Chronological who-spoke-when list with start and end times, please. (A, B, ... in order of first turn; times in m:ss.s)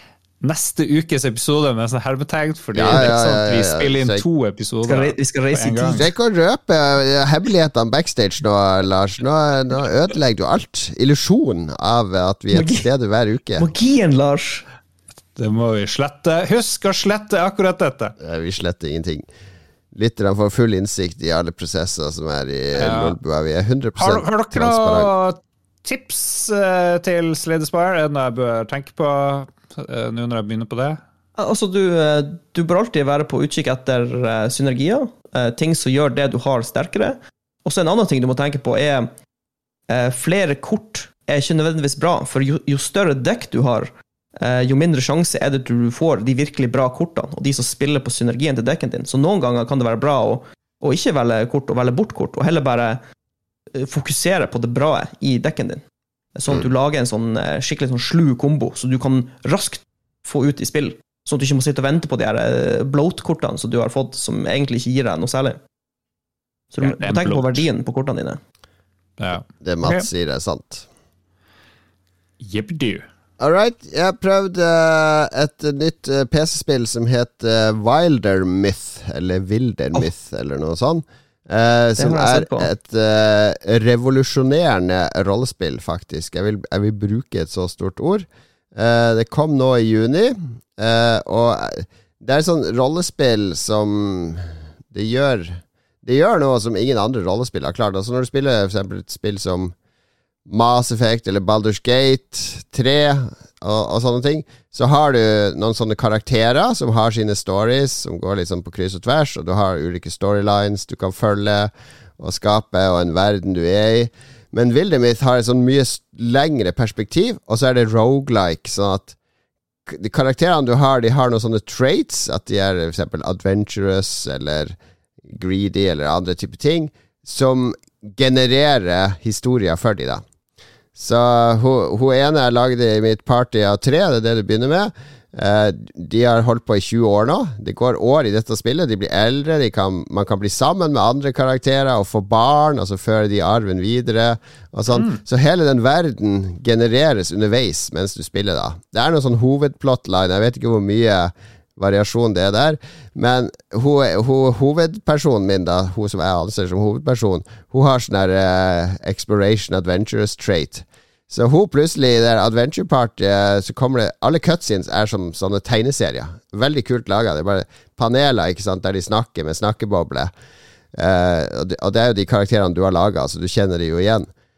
0:00.4-0:06.1 A
0:02.7-0:04.2 B
0:04.9-0:06.0 C
0:06.0-0:13.7 B
0:12.5-0:12.9 C
0:13.6-0:14.6 C
0:15.4-0:18.1 A
0:18.2-0:19.3 B
0:19.9-0:25.1 B
0:22.8-0:23.2 A
0:24.0-0:31.0 A
0:31.4-0:39.1 C
0:39.9-0:53.0 C
0:53.8-0:55.8 C
0:56.4-1:05.6 C
1:06.7-1:08.4 C
1:06.8-1:07.6 A
1:09.2-1:10.1 A
1:09.5-1:10.9 B
1:12.4-1:13.1 A
1:13.4-1:39.8 B
1:22.0-1:22.7 C
1:40.5-1:59.2 B
1:59.9-2:04.8 B
2:05.3-2:10.2 B
2:11.0-2:50.3 B
2:24.9-2:25.2 A
2:50.9-2:54.3 B